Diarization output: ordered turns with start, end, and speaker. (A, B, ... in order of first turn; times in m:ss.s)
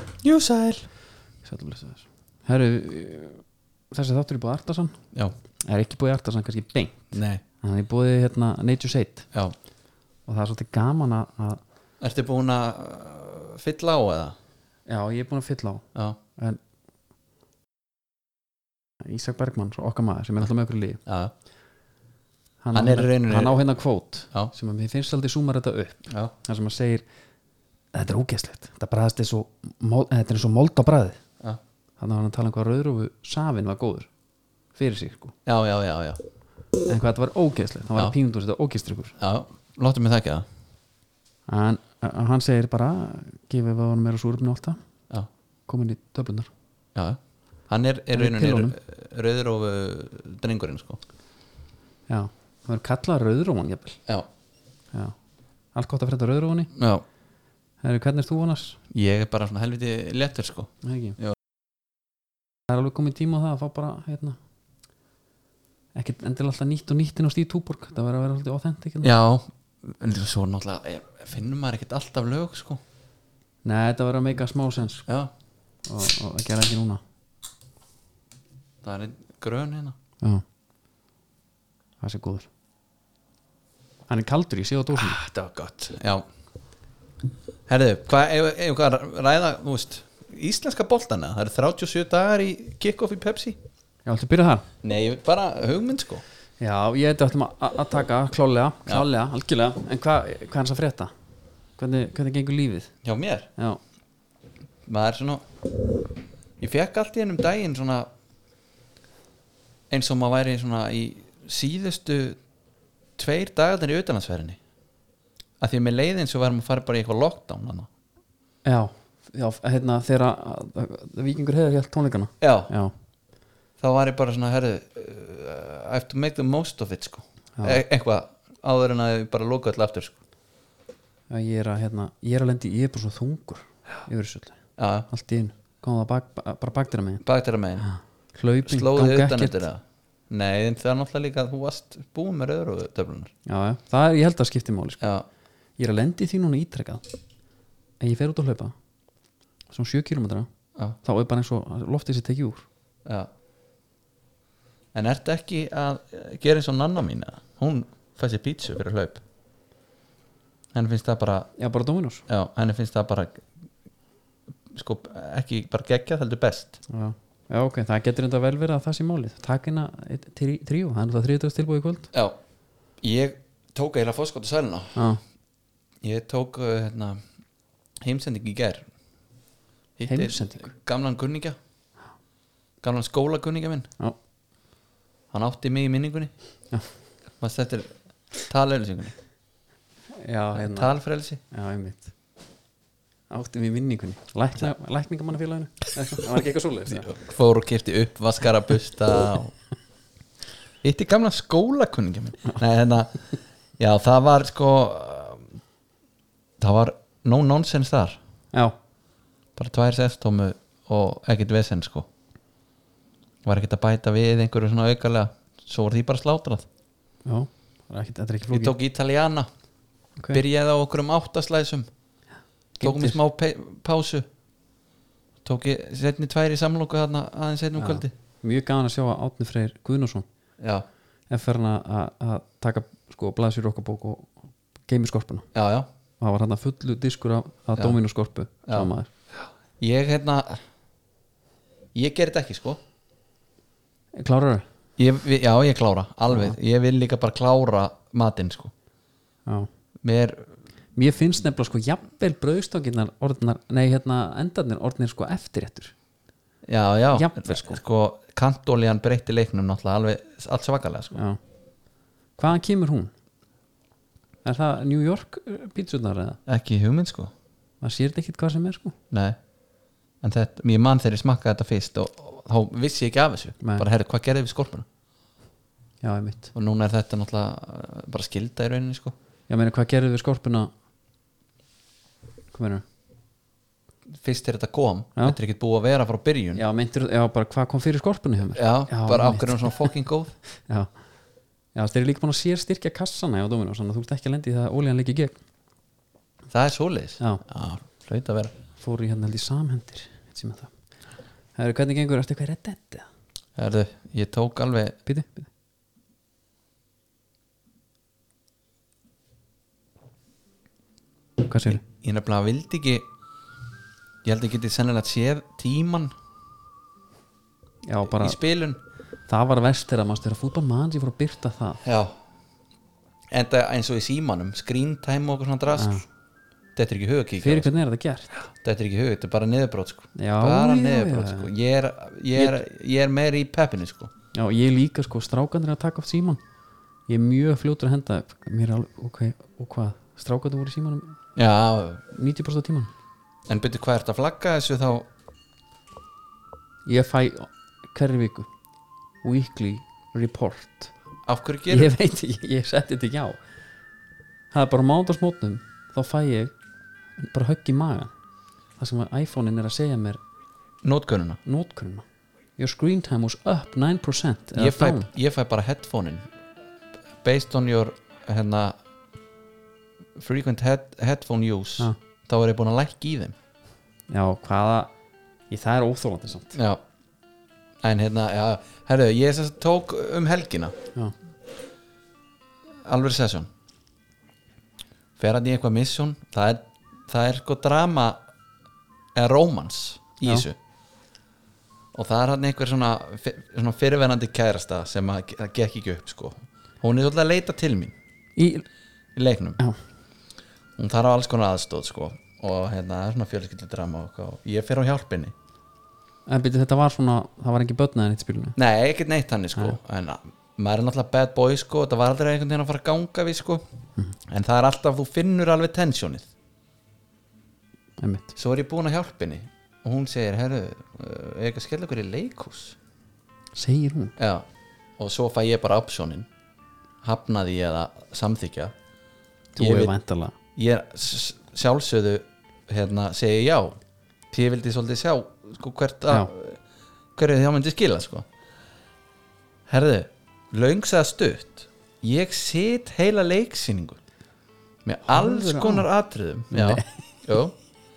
0:00.2-0:00.9 A
0:01.4-0:05.0 B
0:05.7-0:09.3 B
0:07.1-0:07.4 A
0:10.3-0:11.6 B
0:12.0-0:14.4 A
0:14.9-0:15.8 B
0:19.0-0:21.0 B
0:21.1-0:21.3 A
0:22.6-0:27.0 B
0:22.7-0:23.6 A
0:27.9-0:31.2 B
0:32.0-0:34.1 B
0:34.8-0:35.3 B
0:35.4-0:36.2 A
0:36.9-0:39.2 B
0:39.2-0:40.5 A
0:41.5-0:44.8 B
0:45.7-0:46.5 B
0:46.9-0:51.0 A
0:48.1-0:48.8 B
0:52.1-0:54.0 B
0:55.8-0:56.7 B
0:56.7-0:57.0 A
0:57.8-0:58.8 B
0:58.9-1:01.4 A
1:00.8-1:01.2 B
1:02.7-1:04.4 B
1:05.9-1:09.1 B
1:09.0-1:12.8 A
1:13.6-1:15.1 B
1:15.1-1:15.3 A
1:15.9-1:17.0 B
1:18.8-1:20.0 A
1:22.0-1:22.5 B
1:24.1-1:25.2 B
1:24.9-1:26.2 A
1:27.7-1:33.6 A
1:34.0-1:34.7 B
1:34.8-1:36.2 A
1:36.6-1:41.1 B
1:41.8-1:42.9 B
1:43.0-1:43.5 A
1:44.8-1:45.4 A
1:46.6-1:48.1 A
1:49.9-1:52.4 A
1:53.2-1:54.6 A
1:55.6-1:57.9 A
1:58.6-2:02.9 B
2:02.4-2:02.7 A
2:03.8-2:10.2 A
2:07.6-2:07.8 B
2:11.3-2:17.2 B
2:14.8-2:15.1 A
2:17.2-2:17.9 A
2:17.8-2:19.6 B
2:18.6-2:23.3 A
2:23.4-2:25.0 B
2:25.0-2:25.2 A
2:25.8-2:27.0 B
2:28.0-2:28.7 B
2:29.7-2:30.5 B
2:31.0-2:32.7 B
2:33.0-2:33.3 A
2:34.9-2:39.2 A
2:40.7-2:41.5 A
2:41.6-2:42.2 B
2:42.3-2:43.4 A
2:44.7-2:46.8 A
2:46.9-2:52.1 B
2:53.0-2:55.0 A
2:54.9-2:55.2 B
2:56.0-2:57.2 A
2:58.0-2:58.9 A
3:00.0-3:01.6 A
3:00.1-3:00.7 B
3:02.8-3:03.9 A
3:05.3-3:06.3 A
3:07.4-3:07.9 A
3:08.5-3:09.2 A
3:10.2-3:11.0 B
3:10.5-3:11.4 A
3:11.5-3:12.1 B
3:13.3-3:17.1 B
3:16.9-3:19.5 A
3:20.8-3:25.5 A
3:26.6-3:28.2 A
3:29.6-3:32.1 A
3:33.4-3:36.7 A
3:37.2-3:38.8 B
3:38.5-3:39.5 A
3:40.3-3:41.9 A
3:42.8-3:43.2 B
3:42.8-3:44.3 A
3:45.4-3:48.1 A
3:47.8-3:50.2 B
3:50.6-3:50.8 A
3:51.3-3:54.3 B
3:54.9-3:55.5 B
3:55.6-3:55.9 A
3:56.2-3:59.1 B
3:59.8-4:00.6 A
4:01.9-4:02.8 A
4:04.1-4:04.6 B
4:05.0-4:08.7 A
4:06.3-4:06.6 B
4:10.0-4:10.5 A
4:11.0-4:15.9 B
4:16.6-4:21.2 A
4:17.1-4:17.8 B
4:22.4-4:23.1 B
4:24.4-4:26.4 B
4:26.4-4:27.3 A
4:27.8-4:29.0 B
4:29.1-4:29.4 A
4:30.2-4:34.9 A
4:33.6-4:33.9 B
4:36.0-4:36.5 B
4:36.5-4:39.1 A
4:39.5-4:40.7 B
4:42.5-4:42.8 B
4:44.1-4:46.6 A
4:46.5-4:49.9 B
4:48.6-4:50.4 A
4:51.8-4:55.4 B
4:56.5-4:58.5 A
4:58.8-5:00.7 B
5:01.6-5:03.1 B
5:03.6-5:05.0 A
5:05.1-5:05.5 B
5:11.4-5:11.8 B
5:11.8-5:13.1 A
5:14.2-5:16.1 A
5:17.9-5:18.4 B
5:18.0-5:18.8 A
5:19.3-5:21.8 B
5:21.8-5:22.1 A
5:23.3-5:26.0 A
5:25.7-5:26.0 B
5:26.8-5:27.7 A
5:27.4-5:28.3 B
5:28.5-5:34.1 A
5:30.2-5:31.5 B
5:34.3-5:36.4 B
5:37.1-5:41.2 B
5:41.4-5:42.0 A
5:42.1-5:42.9 B
5:43.5-5:45.1 A
5:46.9-5:48.5 B
5:49.2-5:50.9 B
5:51.3-5:51.9 A
5:51.7-5:53.4 B
5:54.5-5:56.5 B
5:57.2-5:58.1 B
5:58.8-6:00.2 B
6:00.8-6:01.4 A
6:01.4-6:02.0 B
6:02.6-6:05.1 B
6:04.6-6:06.3 A
6:07.2-6:08.8 A
6:10.2-6:13.3 A
6:14.1-6:14.9 B
6:15.5-6:16.6 B
6:16.6-6:16.8 A
6:17.8-6:20.8 A
6:22.9-6:23.5 A
6:25.2-6:28.2 A
6:29.1-6:30.6 A
6:31.9-6:37.9 A
6:38.4-6:38.6 B
6:39.1-6:39.6 A
6:40.8-6:45.3 A
6:46.3-6:48.6 B
6:48.6-6:53.6 A
6:54.3-6:56.3 A
6:58.0-6:58.4 B
6:58.4-7:02.8 A
7:03.6-7:04.1 B
7:04.2-7:04.5 A
7:05.0-7:06.3 A
7:07.0-7:08.7 A
7:09.6-7:10.3 B
7:09.6-7:09.9 A
7:10.6-7:13.8 A
7:14.3-7:16.6 A
7:17.1-7:18.2 A
7:19.7-7:24.0 A
7:24.8-7:27.6 A
7:25.1-7:25.9 B
7:26.5-7:26.9 B